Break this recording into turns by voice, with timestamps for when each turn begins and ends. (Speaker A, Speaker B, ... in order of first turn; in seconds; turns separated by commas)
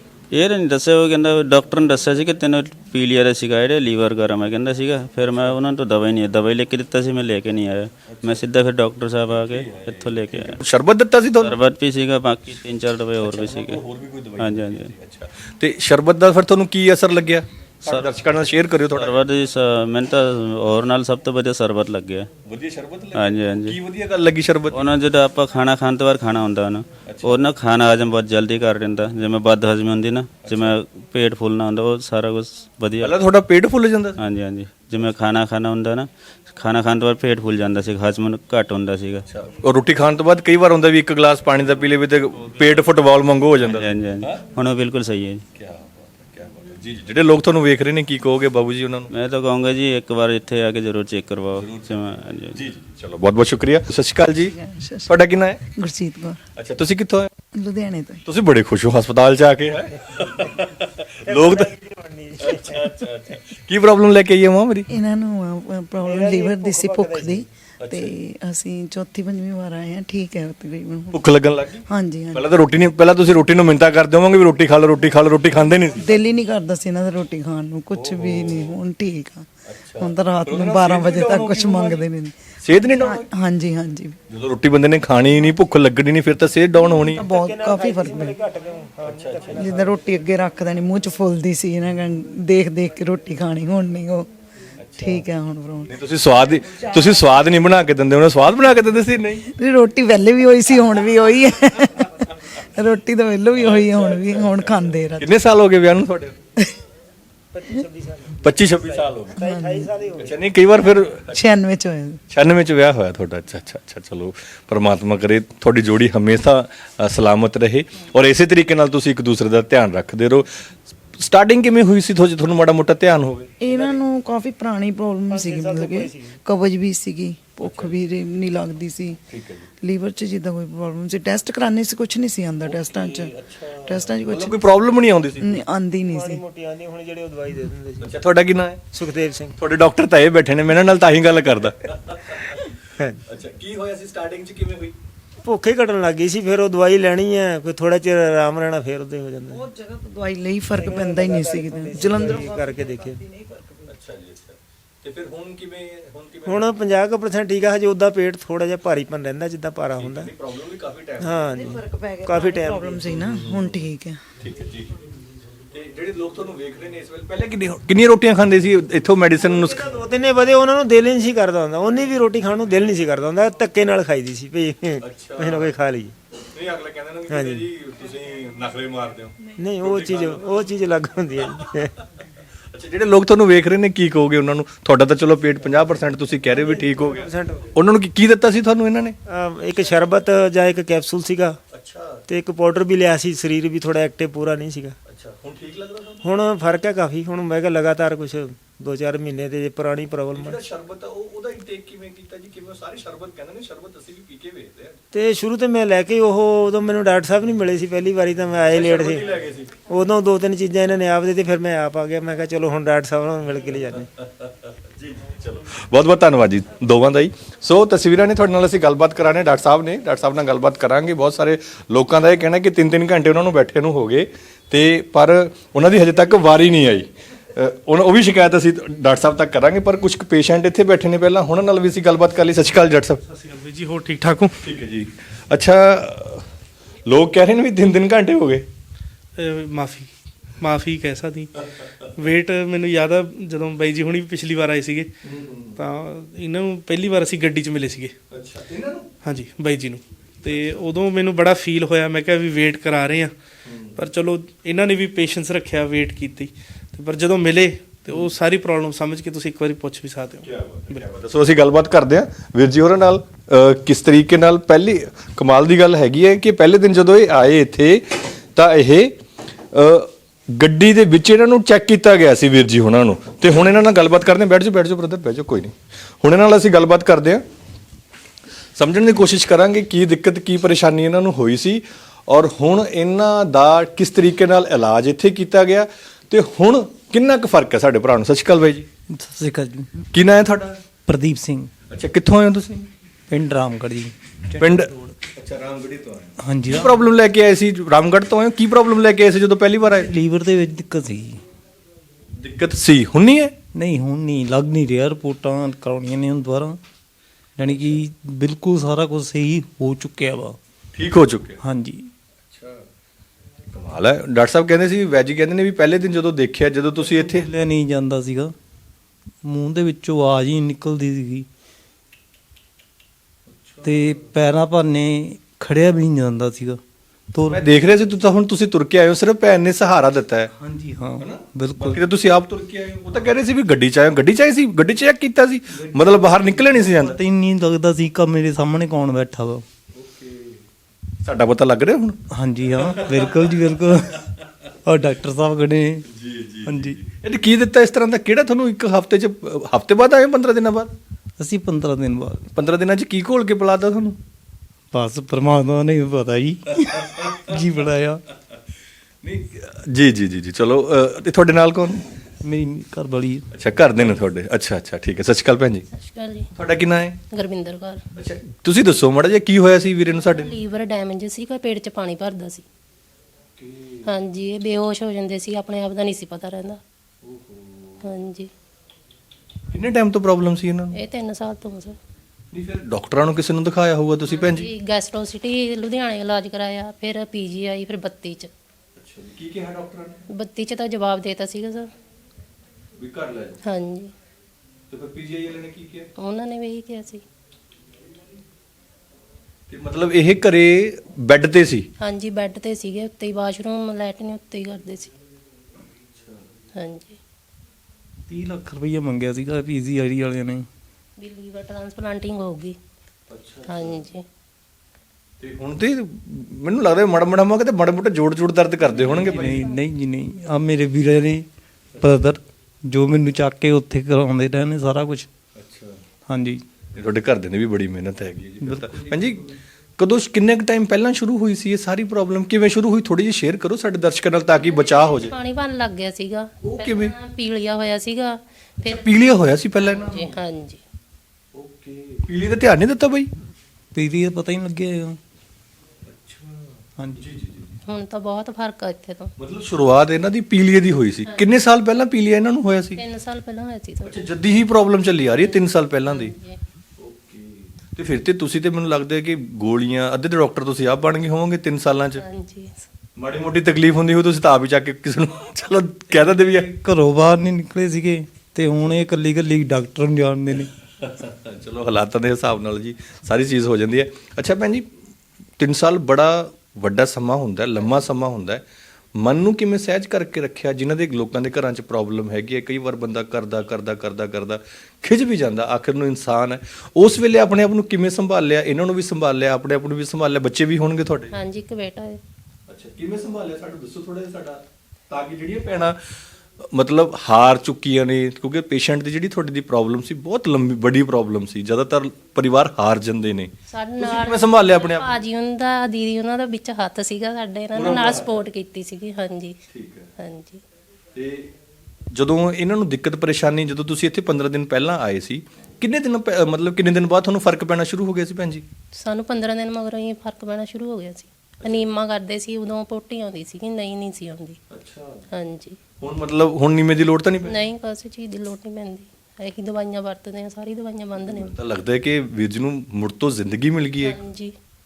Speaker A: 0.3-10.6, Speaker B: 8.1-8.4, Speaker B: 9.3-11.6, Speaker A: 11.4-13.8, Speaker B: 13.2-19.2, Speaker A: 14.4-14.9, Speaker A: 18.9-22.3, Speaker B: 22.4-24.8, Speaker A: 23.1-23.8, Speaker A: 24.7-33.2, Speaker B: 27.1-27.4, Speaker B: 30.4-30.8, Speaker B: 33.0-34.2, Speaker A: 34.2-39.2, Speaker B: 39.3-44.4, Speaker A: 43.6-45.4, Speaker B: 45.5-49.1, Speaker A: 49.1-52.6, Speaker B: 51.6-54.5, Speaker C: 54.4-56.4, Speaker B: 55.1-55.6, Speaker B: 56.5-57.3, Speaker C: 57.5-58.2, Speaker B: 58.2-61.7, Speaker D: 61.2-62.9, Speaker B: 62.4-64.9, Speaker C: 64.9-71.3, Speaker D: 66.0-67.4, Speaker B: 67.8-68.1, Speaker B: 71.1-76.1, Speaker C: 71.9-72.4, Speaker C: 76.0-84.2, Speaker B: 77.9-78.8, Speaker B: 79.7-82.0, Speaker B: 82.6-83.2, Speaker B: 84.3-87.3, Speaker C: 86.8-88.4, Speaker D: 87.2-90.0, Speaker B: 89.0-89.7, Speaker C: 89.6-94.3, Speaker B: 94.8-95.2, Speaker C: 95.0-95.9, Speaker B: 95.9-99.4, Speaker C: 99.5-105.3, Speaker B: 103.5-104.7, Speaker B: 105.2-106.3, Speaker D: 107.5-110.4, Speaker B: 108.4-109.4, Speaker C: 109.3-109.9, Speaker B: 110.2-111.4, Speaker C: 111.3-112.2, Speaker B: 112.3-120.5, Speaker B: 121.1-123.5, Speaker C: 123.6-129.2, Speaker D: 123.6-124.0, Speaker D: 125.3-126.4, Speaker B: 127.6-127.9, Speaker B: 129.3-129.7, Speaker C: 129.8-134.8, Speaker B: 132.6-135.6, Speaker C: 135.4-136.4, Speaker D: 136.1-138.1, Speaker B: 138.0-138.8, Speaker D: 138.9-139.6, Speaker B: 139.6-144.9, Speaker D: 145.4-149.6, Speaker C: 149.5-153.9, Speaker D: 150.7-153.2, Speaker B: 153.9-156.7, Speaker D: 156.4-160.3, Speaker B: 159.9-161.7, Speaker D: 161.2-163.1, Speaker C: 161.6-164.2, Speaker B: 163.2-163.8, Speaker B: 164.4-165.0, Speaker B: 165.7-170.0, Speaker D: 169.4-176.1, Speaker B: 175.0-175.7, Speaker B: 176.5-180.7, Speaker D: 177.3-177.7, Speaker D: 179.6-181.9, Speaker B: 182.7-189.2, Speaker D: 186.5-187.7, Speaker D: 189.3-191.6, Speaker B: 191.7-192.2, Speaker D: 192.3-194.9, Speaker B: 195.0-196.2, Speaker D: 196.2-200.6, Speaker B: 200.3-205.0, Speaker D: 205.1-209.2, Speaker B: 208.7-209.8, Speaker D: 209.9-214.1, Speaker B: 214.2-233.2, Speaker E: 233.3-234.6, Speaker B: 234.6-236.5, Speaker B: 237.1-238.7, Speaker E: 239.3-241.5, Speaker E: 242.2-245.1, Speaker B: 245.2-245.8, Speaker E: 245.8-248.1, Speaker B: 248.3-249.1, Speaker E: 249.2-253.3, Speaker B: 250.4-250.9, Speaker B: 253.6-254.0, Speaker E: 254.0-261.0, Speaker B: 260.4-269.2, Speaker B: 269.7-277.4, Speaker B: 278.8-288.9, Speaker F: 289.1-289.9, Speaker B: 290.1-290.8, Speaker F: 291.1-291.7, Speaker B: 291.9-292.9, Speaker F: 293.3-295.1, Speaker B: 294.6-300.1, Speaker F: 296.4-296.9, Speaker F: 299.9-301.4, Speaker B: 302.4-303.6, Speaker F: 303.7-306.8, Speaker F: 307.6-310.6, Speaker B: 307.7-308.0, Speaker B: 310.9-311.6, Speaker F: 311.6-312.1, Speaker B: 312.4-312.9, Speaker B: 313.7-317.5, Speaker F: 317.0-318.5, Speaker F: 319.4-321.5, Speaker B: 323.5-324.3, Speaker F: 323.8-326.8, Speaker F: 327.3-327.6, Speaker B: 327.5-330.5, Speaker F: 330.6-332.0, Speaker B: 331.2-337.2, Speaker F: 335.7-339.6, Speaker B: 339.9-340.6, Speaker B: 341.2-342.2, Speaker F: 342.3-344.2, Speaker B: 342.8-343.4, Speaker F: 344.9-346.1, Speaker B: 346.1-350.9, Speaker F: 346.6-347.0, Speaker F: 351.4-352.4, Speaker B: 352.5-354.2, Speaker F: 354.9-358.2, Speaker B: 356.8-357.3, Speaker B: 359.2-362.1, Speaker F: 362.4-363.5, Speaker B: 363.5-365.8, Speaker G: 365.9-366.5, Speaker B: 366.5-367.2, Speaker G: 367.3-368.0, Speaker B: 368.1-370.5, Speaker G: 370.3-372.6, Speaker B: 373.6-374.1, Speaker G: 374.0-376.8, Speaker B: 377.2-378.0, Speaker G: 378.0-378.5, Speaker B: 379.7-381.0, Speaker G: 380.9-382.0, Speaker B: 382.5-384.7, Speaker G: 384.3-388.5, Speaker B: 389.0-390.2, Speaker G: 390.3-391.9, Speaker B: 393.0-393.6, Speaker G: 393.6-394.1, Speaker B: 394.9-396.1, Speaker G: 396.2-397.2, Speaker B: 399.7-401.9, Speaker G: 402.0-405.1, Speaker B: 406.1-406.4, Speaker G: 406.7-407.2, Speaker F: 408.3-410.6, Speaker G: 411.2-412.8, Speaker B: 413.3-414.0, Speaker G: 413.7-414.2, Speaker B: 415.4-419.7, Speaker F: 418.9-421.4, Speaker G: 419.1-419.7, Speaker F: 422.0-425.3, Speaker B: 425.6-426.0, Speaker F: 426.3-426.6, Speaker B: 426.9-435.3, Speaker F: 428.6-429.5, Speaker G: 434.6-439.1, Speaker B: 436.6-437.1, Speaker B: 438.8-440.3, Speaker G: 439.8-440.8, Speaker B: 441.5-443.3, Speaker F: 443.9-445.2, Speaker B: 446.0-447.8, Speaker F: 447.0-447.2, Speaker G: 447.9-449.3, Speaker B: 449.4-453.0, Speaker G: 452.9-454.2, Speaker B: 454.0-456.3, Speaker G: 455.4-456.6, Speaker B: 457.0-462.2, Speaker G: 462.2-462.9, Speaker B: 463.2-466.7, Speaker F: 466.5-470.7, Speaker B: 471.0-474.9, Speaker B: 475.6-478.6, Speaker B: 479.1-491.3, Speaker G: 491.3-492.2, Speaker B: 492.7-496.0, Speaker B: 496.6-505.2, Speaker G: 503.7-509.6, Speaker B: 507.7-508.4, Speaker B: 509.7-510.1, Speaker G: 510.2-510.6, Speaker B: 511.1-511.5, Speaker B: 512.1-518.6, Speaker G: 519.0-524.6, Speaker B: 521.6-521.9, Speaker B: 524.7-525.3, Speaker G: 525.3-525.8, Speaker B: 526.0-527.6, Speaker G: 527.5-531.5, Speaker B: 531.2-534.2, Speaker G: 534.0-534.5